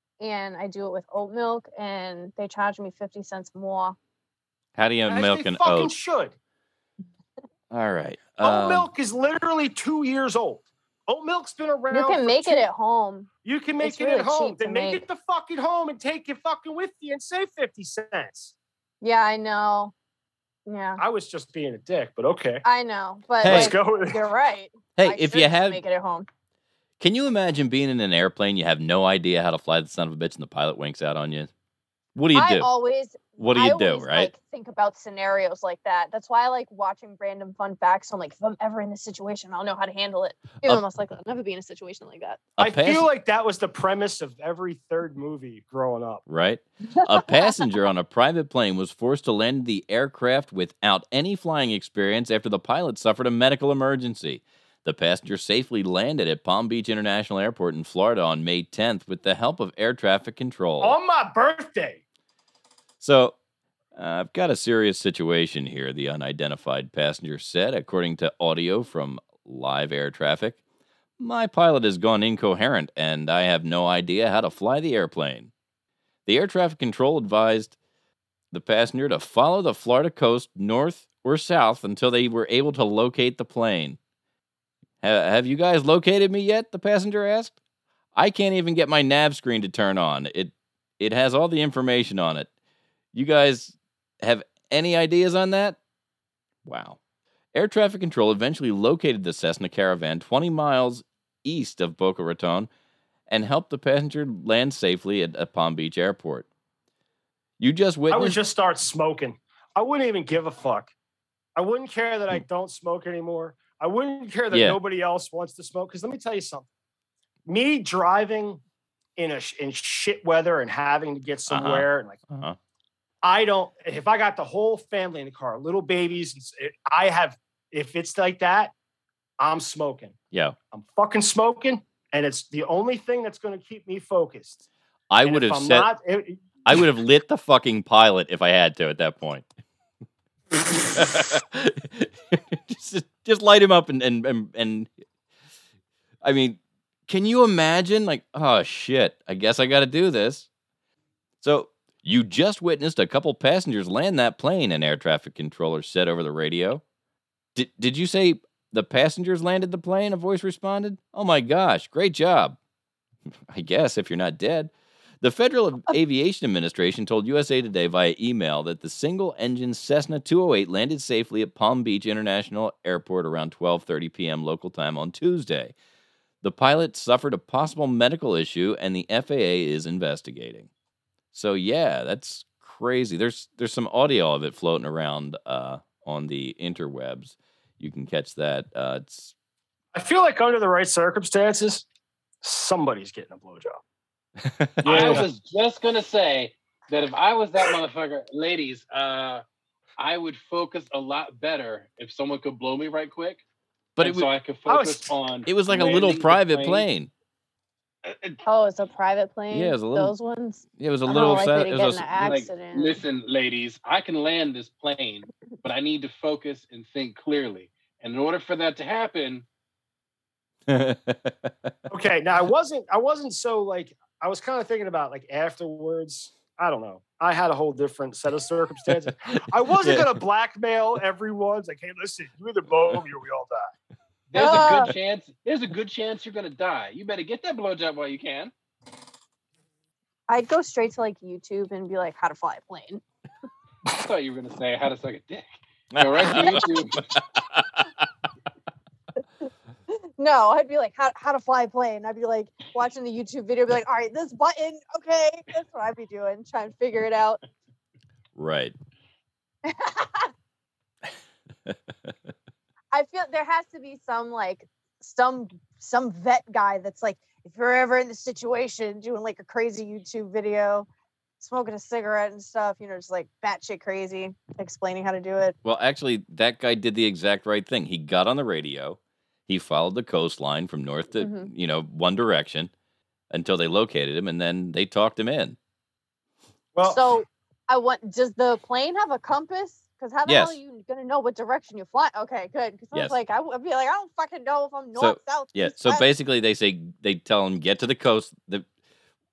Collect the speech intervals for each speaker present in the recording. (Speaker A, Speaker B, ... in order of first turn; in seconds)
Speaker A: 0.2-4.0, 11.9-13.3, 13.8-15.0, 19.0-19.9, 20.6-21.0, 22.6-26.3, 32.3-42.4, 208.4-213.0, 234.3-234.9, 240.3-243.0, 246.3-246.7, 250.2-257.4, 259.6-260.3, 262.9-270.9, 271.4-275.6, 281.2-281.5, 286.8-296.1
Speaker B: 4.8-5.9, 7.7-8.9, 23.4-23.8, 24.9-25.8, 27.0-31.5, 32.1-32.7, 33.4-34.3, 42.6-43.1, 46.3-61.0, 63.0-63.3, 63.9-70.6, 71.2-75.5, 76.2-77.8, 78.5-84.0, 85.0-87.5, 88.1-92.5, 93.1-95.8, 96.6-97.0, 97.5-102.7, 103.3-106.5, 107.6-108.4, 114.5-114.8, 121.5-122.6, 135.1-135.9, 136.6-139.5, 140.5-144.9, 146.2-150.5, 151.4-156.8, 157.5-162.6, 163.5-164.7, 165.2-175.7, 176.4-180.7, 181.3-189.3, 194.4-195.2, 204.0-204.3, 205.4-207.1, 209.5-210.1, 210.8-212.4, 220.7-221.7, 229.7-230.2, 245.9-247.9, 258.4-258.7, 275.6-282.7, 283.3-285.6, 290.2-290.6, 294.9-298.6
Speaker C: 5.1-6.3, 8.4-12.7, 13.4-18.5, 21.0-22.6, 23.4-24.3, 42.6-46.2, 60.8-62.0, 108.1-110.9, 111.5-116.7, 117.5-118.6, 119.2-122.2, 123.2-128.7, 129.4-130.2, 130.7-134.6, 135.2-136.8, 189.9-191.8, 192.4-193.8, 194.8-195.3, 204.7-205.1, 221.9-233.7, 286.7-287.1
Speaker D: 194.8-199.4, 200.0-203.4, 204.0-206.9, 208.0-208.4, 212.2-219.5, 234.3-238.5, 243.8-245.4, 246.0-247.0